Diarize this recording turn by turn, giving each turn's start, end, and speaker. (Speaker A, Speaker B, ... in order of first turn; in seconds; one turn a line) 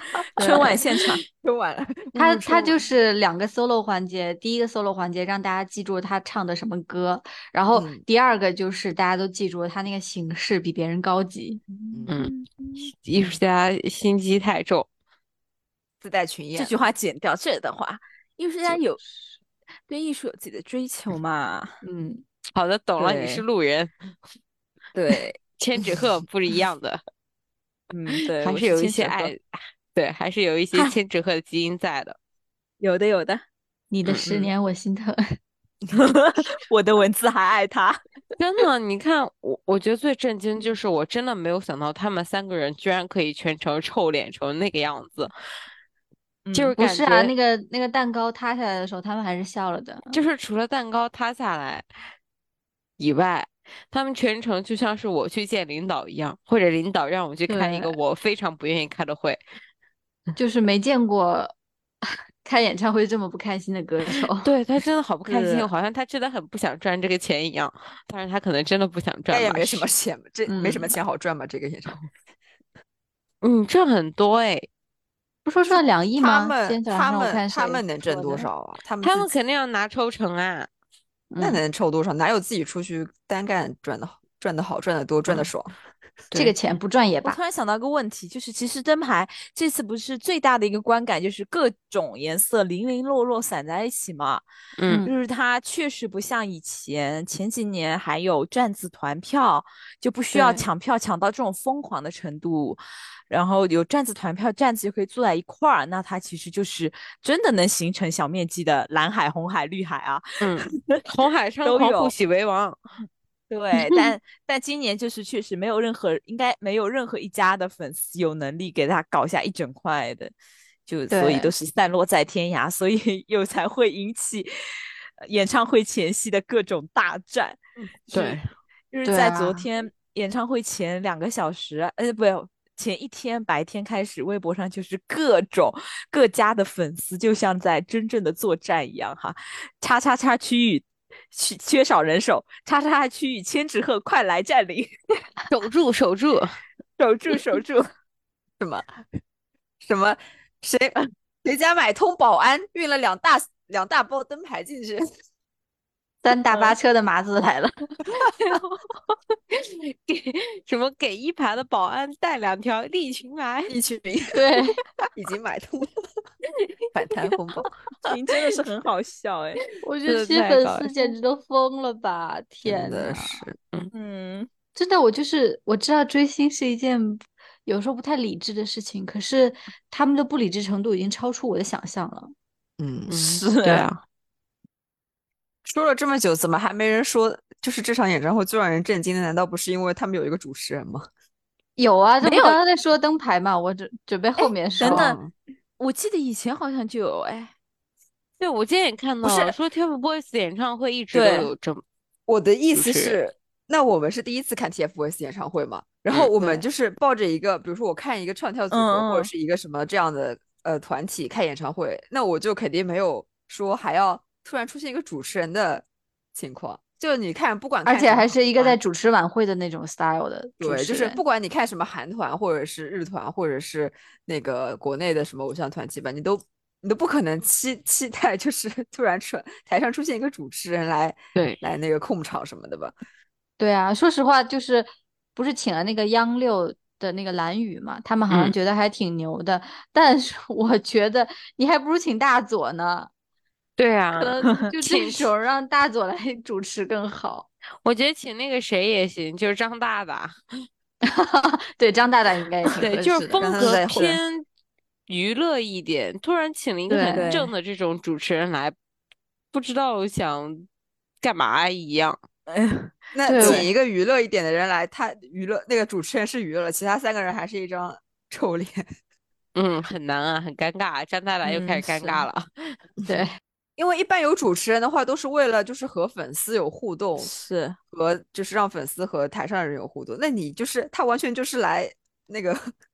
Speaker A: 0.4-0.8
Speaker B: 0.4-1.2
Speaker C: 1.4-2.8
Speaker A: 2.2-11.7
Speaker C: 7.7-8.0
Speaker B: 12.1-12.9
Speaker D: 12.8-14.9
Speaker C: 16.0-16.7
Speaker B: 16.6-19.0
Speaker B: 19.9-21.8
Speaker A: 21.8-22.2
Speaker D: 22.5-24.0
Speaker B: 23.0-23.4
Speaker C: 24.9-25.4
Speaker D: 25.6-27.0
Speaker B: 27.9-29.3
Speaker D: 28.4-32.2
Speaker B: 32.8-33.4
Speaker A: 33.9-35.2
Speaker B: 35.9-38.0
Speaker D: 38.4-45.3
Speaker B: 46.5-46.8
Speaker D: 46.5-47.3
Speaker A: 46.8-50.2
Speaker D: 50.1-51.9
Speaker D: 53.0-59.4
Speaker A: 57.5-58.0
Speaker A: 60.4-61.5
Speaker A: 62.4-64.5
Speaker D: 64.4-69.9
Speaker C: 69.3-72.0
Speaker A: 70.5-71.0
Speaker D: 73.4-74.7
Speaker A: 75.5-78.5
Speaker C: 75.7-79.3
Speaker D: 79.0-80.7
Speaker A: 81.3-81.6
Speaker C: 81.4-85.7
Speaker A: 86.3-87.4
Speaker B: 87.2-94.4
Speaker D: 94.8-95.1
Speaker A: 94.9-95.1
Speaker B: 95.0-111.0
Speaker D: 110.4-112.8
Speaker B: 111.7-112.1
Speaker B: 113.5-120.3
Speaker B: 120.9-124.5
Speaker A: 121.1-121.5
Speaker B: 125.3-127.6
Speaker D: 127.8-128.5
Speaker B: 128.1-128.4
Speaker B: 128.9-144.9
Speaker A: 129.1-129.7
Speaker D: 145.5-146.6
Speaker B: 147.0-147.9
Speaker C: 148.6-149.0
Speaker C: 149.8-155.1
Speaker A: 156.2-158.3
Speaker D: 159.5-163.7
Speaker C: 163.7-164.4
Speaker A: 164.3-164.8
Speaker C: 165.2-165.9
Speaker C: 166.9-167.7
Speaker B: 168.1-169.6
Speaker A: 169.8-173.4
Speaker D: 170.1-171.2
Speaker C: 172.7-173.6
Speaker B: 173.9-174.5
Speaker A: 174.8-182.3
Speaker C: 182.8-183.2
Speaker D: 183.1-184.0
Speaker B: 183.2-183.9
Speaker C: 185.7-191.1
Speaker A: 191.8-195.1
Speaker B: 192.2-192.6
Speaker B: 194.8-195.2
Speaker C: 194.8-195.3
Speaker B: 195.8-197.5
Speaker D: 198.4-201.8
Speaker C: 199.2-199.6
Speaker B: 201.1-201.5
Speaker C: 202.3-218.8
Speaker D: 202.8-203.2
Speaker B: 208.7-209.3
Speaker A: 217.8-221.2
Speaker C: 220.6-232.9
Speaker A: 233.6-243.1
Speaker D: 238.3-238.6
Speaker D: 243.8-245.3
Speaker A: 244.2-247.5
Speaker D: 247.8-250.4
Speaker A: 251.1-253.6
Speaker D: 252.8-254.4
Speaker C: 253.3-254.2
Speaker D: 255.1-258.8
Speaker A: 256.9-257.3
Speaker B: 257.1-257.5
Speaker D: 259.5-260.7
Speaker D: 261.2-262.2
Speaker B: 262.5-262.9
Speaker C: 263.1-268.9
Speaker A: 263.3-263.7
Speaker D: 269.6-272.8
Speaker B: 271.4-272.3
Speaker C: 273.8-277.3
Speaker B: 277.2-277.8
Speaker C: 277.9-282.7